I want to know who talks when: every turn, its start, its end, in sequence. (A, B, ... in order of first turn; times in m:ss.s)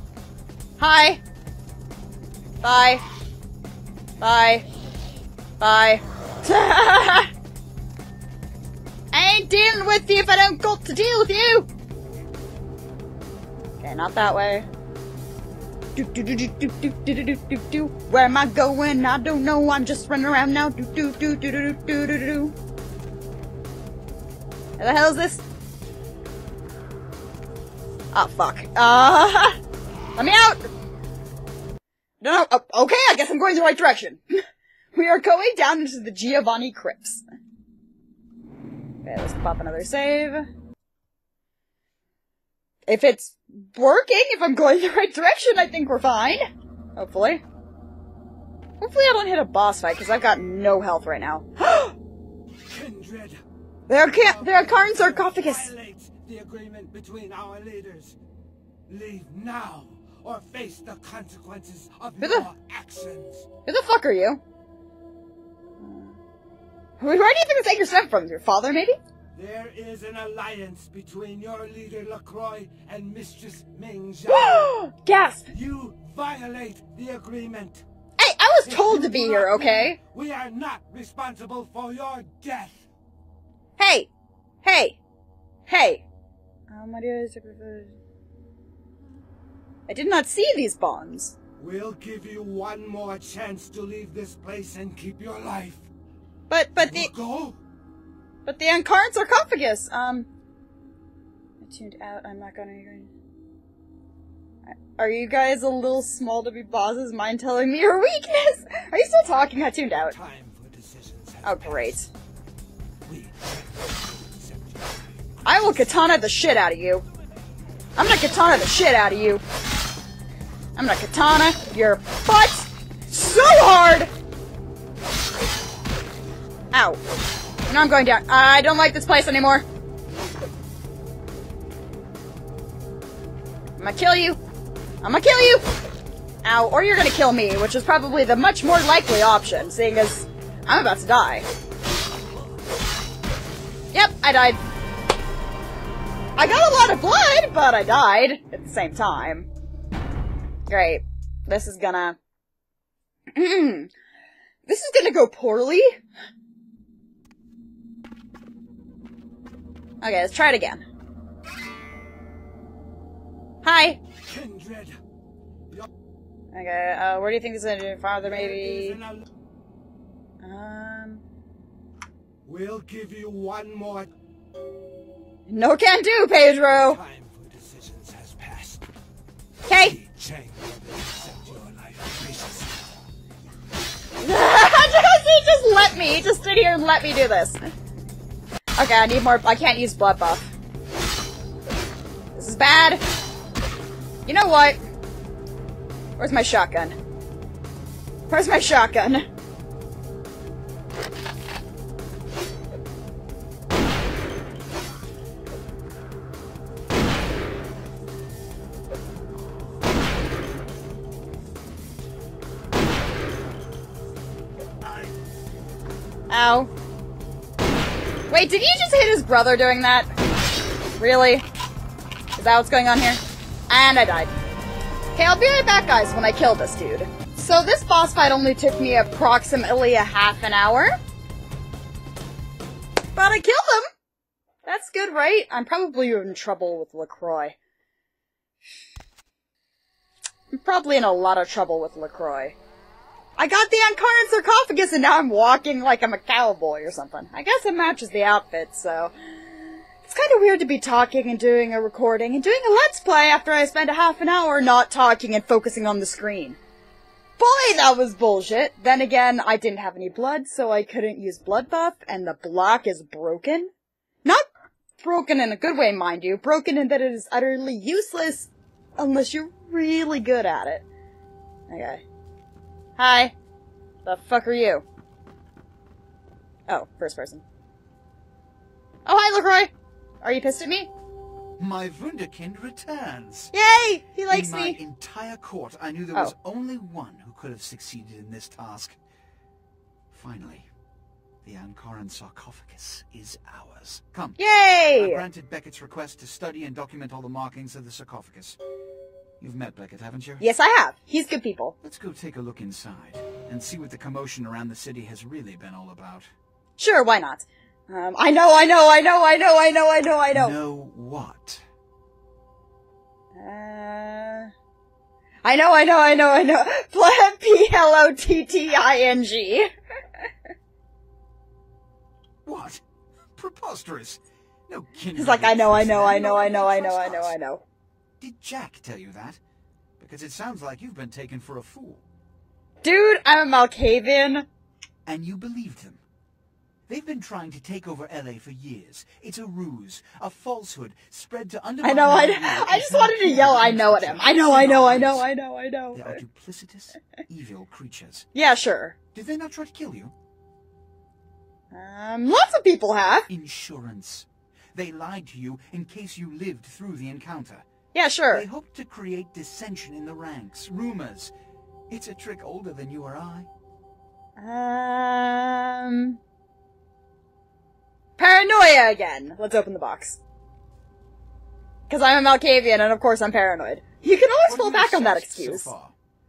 0:00.8-0:01.2 A
0:02.6-0:03.0 A
0:04.2-0:04.6 A
0:05.6-0:07.3 A
0:09.1-0:11.7 A
0:13.8-0:14.6 A
0:15.9-0:22.5 A
0:24.8-0:25.4 A
0:28.1-0:29.6 A
0:30.2-0:30.7 A
0:32.2-0:34.4 A
0:34.9-0:37.2 A
0:39.0-0:40.5 A
0:42.9-0:46.4 A
0:47.0-0:47.4 A
0:48.8-0:52.0 A
0:52.7-0:53.4 B
0:53.9-0:55.7 A
0:54.1-0:58.2 B
0:58.9-1:03.4 B
1:02.2-1:02.5 A
1:03.6-1:04.4 A
1:05.8-1:06.2 A
1:07.0-1:09.0 A
1:09.3-1:14.7 B
1:14.3-1:15.5 A
1:15.5-1:17.8 B
1:18.2-1:20.0 A
1:18.6-1:22.9 B
1:23.8-1:24.1 A
1:24.6-1:25.0 A
1:25.7-1:26.0 A
1:26.7-1:27.9 A
1:29.9-1:31.4 A
1:31.6-1:35.9 B
1:36.5-1:37.1 A
1:36.8-1:37.6 B
1:38.4-1:40.3 A
1:41.6-1:43.1 A
1:44.7-1:50.2 A
1:50.0-1:52.0 B
1:51.4-1:52.1 A
1:53.0-1:54.9 B
1:55.4-1:57.0 A
1:58.0-1:59.4 A
2:00.8-2:04.1 A
2:06.7-2:07.0 A
2:07.7-2:09.6 A
2:13.8-2:14.4 A
2:15.0-2:15.7 A
2:16.4-2:21.5 A
2:23.9-2:24.6 A
2:26.4-2:29.5 A
2:30.7-2:32.2 A
2:33.3-2:33.9 A
2:34.6-2:36.0 A
2:40.0-2:40.8 A
2:43.6-2:44.0 A
2:44.2-2:45.0 B
2:46.5-2:49.0 A
2:48.2-2:49.2 B
2:50.4-2:51.2 A
2:52.4-2:54.1 B
2:55.5-2:57.0 A
2:56.7-2:58.9 B
2:59.6-3:00.0 A
2:59.7-3:02.9 B
3:04.2-3:07.6 A
3:08.8-3:10.5 A
3:12.3-3:13.0 A
3:14.2-3:14.8 A
3:16.2-3:17.0 A
3:18.3-3:19.2 A
3:36.3-3:36.7 A
3:38.3-3:40.1 A
3:41.0-3:41.4 A
3:42.4-3:44.3 A
3:45.1-3:50.9 A
3:53.1-3:53.9 A
3:54.6-3:57.5 A
4:00.5-4:02.5 A
4:03.4-4:16.6 A
4:17.4-4:23.7 A
4:25.0-4:30.8 A
4:31.7-4:32.0 A
4:33.0-4:33.3 A
4:34.0-4:34.8 A
4:36.7-4:37.4 A
4:39.0-4:39.7 A
4:40.2-4:40.9 A
4:41.6-4:43.5 C
4:43.5-4:44.8 A
4:44.3-4:49.0 C
4:50.1-4:50.7 C
4:51.4-4:54.4 C
4:54.4-4:55.2 A
4:55.0-4:58.6 C
4:59.4-5:00.4 C
5:00.4-5:01.7 A
5:01.8-5:06.3 C
5:06.8-5:10.6 A
5:10.3-5:11.6 C
5:13.3-5:14.5 A
5:15.4-5:19.7 A
5:22.4-5:22.8 C
5:23.3-5:27.3 C
5:25.1-5:27.6 A
5:28.2-5:29.4 C
5:30.0-5:32.0 C
5:32.8-5:34.4 A
5:35.0-5:36.0 C
5:36.9-5:45.2 C
5:41.8-5:46.2 A
5:45.9-5:48.3 C
5:48.3-5:49.0 A
5:49.1-5:50.1 C
5:51.7-5:53.3 A
5:53.3-5:57.6 C
5:57.9-5:58.4 A
5:58.3-6:01.3 C
6:01.9-6:03.5 C
6:04.4-6:06.2 A
6:08.2-6:10.2 A
6:11.9-6:15.7 A
6:14.4-6:15.9 C